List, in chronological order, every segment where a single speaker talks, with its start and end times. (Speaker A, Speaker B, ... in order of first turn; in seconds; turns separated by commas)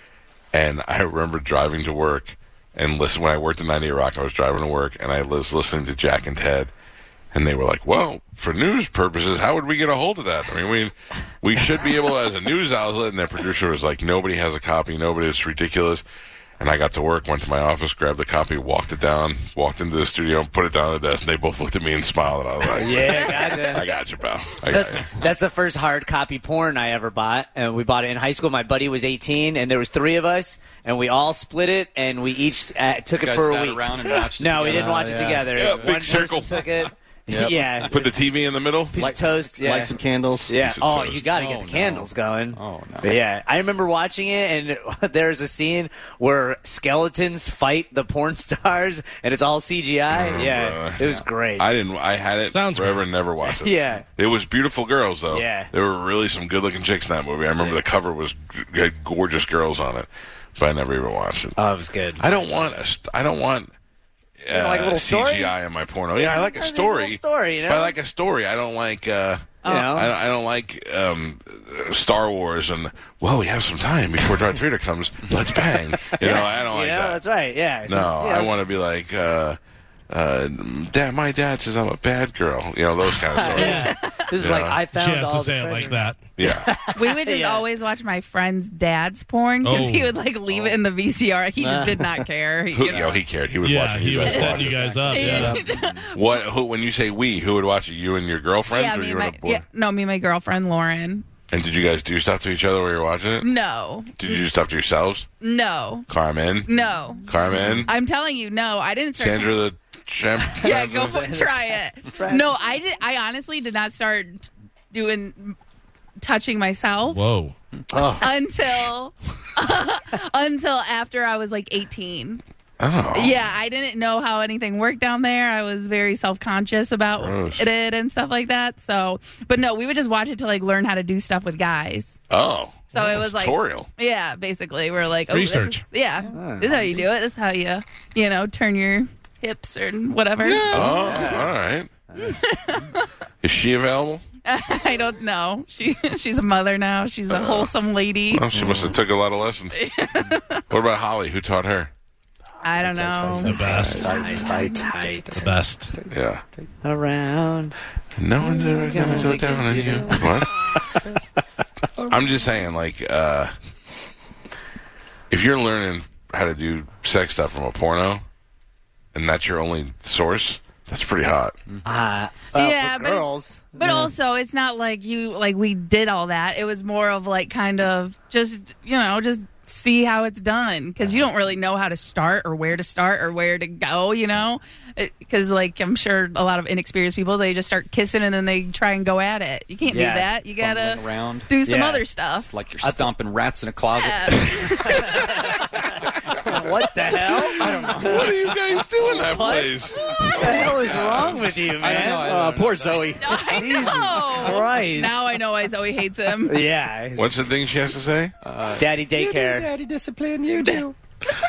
Speaker A: 0.5-6.7, Speaker A: 7.3-16.0, Speaker A: 16.6-25.2, Speaker B: 22.7-23.9, Speaker B: 24.7-38.1, Speaker C: 33.2-36.6, Speaker D: 34.6-35.5, Speaker A: 35.5-36.8, Speaker D: 37.3-37.6, Speaker A: 37.9-39.0, Speaker B: 38.9-40.0, Speaker D: 39.0-40.5, Speaker B: 40.5-51.7, Speaker A: 40.5-41.3, Speaker C: 41.3-43.2, Speaker A: 50.1-51.1, Speaker A: 51.6-61.6, Speaker E: 52.5-53.0, Speaker B: 53.4-54.1, Speaker B: 55.3-55.7, Speaker B: 61.6-62.3, Speaker A: 62.2-63.7, Speaker A: 64.4-77.2, Speaker B: 64.5-65.5, Speaker B: 66.2-68.0, Speaker F: 69.6-69.9, Speaker B: 69.6-70.1, Speaker B: 76.1-78.6, Speaker A: 77.9-79.6, Speaker A: 80.1-84.8, Speaker B: 83.3-87.7, Speaker E: 83.5-84.0, Speaker F: 83.6-84.1, Speaker E: 84.9-86.3, Speaker A: 86.4-86.7, Speaker F: 87.0-93.1, Speaker E: 89.6-90.2, Speaker D: 91.6-92.2, Speaker A: 92.7-95.5, Speaker E: 93.6-95.6, Speaker F: 94.2-96.2, Speaker C: 94.5-95.9, Speaker A: 96.1-99.6, Speaker F: 98.7-101.2, Speaker A: 101.5-103.5, Speaker F: 103.4-104.4, Speaker A: 104.2-105.3, Speaker F: 105.4-106.1, Speaker A: 106.1-106.7, Speaker F: 106.7-107.3, Speaker A: 107.3-107.9, Speaker F: 107.9-109.6, Speaker A: 109.2-111.1, Speaker F: 110.5-115.6, Speaker B: 110.6-111.5, Speaker B: 112.1-112.5, Speaker F: 116.2-117.2, Speaker E: 117.1-117.5, Speaker D: 117.9-118.3, Speaker F: 118.2-122.4, Speaker A: 122.8-123.4, Speaker F: 123.1-132.2, Speaker A: 127.2-127.7, Speaker A: 132.3-133.9, Speaker F: 132.9-141.2, Speaker E: 135.3-135.8, Speaker B: 136.3-137.1, Speaker C: 140.4-141.0, Speaker A: 140.7-141.9, Speaker B: 140.7-141.5, Speaker B: 142.1-142.4, Speaker F: 142.2-143.1, Speaker A: 143.4-144.2, Speaker F: 144.4-148.4, Speaker A: 147.3-147.7, Speaker A: 148.3-149.8, Speaker D: 148.6-148.9, Speaker F: 149.7-150.6, Speaker A: 150.7-151.9, Speaker F: 152.6-154.7, Speaker D: 152.8-155.0, Speaker E: 153.4-154.1, Speaker B: 153.5-155.5, Speaker E: 155.4-155.9, Speaker A: 156.1-156.4, Speaker B: 156.8-157.8, Speaker A: 158.2-160.6, Speaker B: 158.7-160.3, Speaker A: 162.1-163.5, Speaker A: 165.3-168.2, Speaker A: 169.1-171.6, Speaker B: 171.8-174.1, Speaker F: 172.5-192.5, Speaker B: 189.9-190.3, Speaker C: 190.6-191.5, Speaker B: 191.7-192.0, Speaker C: 192.4-195.2, Speaker B: 192.8-193.1, Speaker F: 194.0-195.3, Speaker B: 194.9-198.3, Speaker C: 197.5-198.4, Speaker A: 197.6-201.6, Speaker B: 199.0-202.5, Speaker C: 201.8-203.2, Speaker D: 202.0-203.6, Speaker F: 203.2-206.6, Speaker B: 203.5-205.1, Speaker B: 206.5-207.5, Speaker A: 207.2-208.3, Speaker C: 208.4-210.9, Speaker B: 208.7-209.7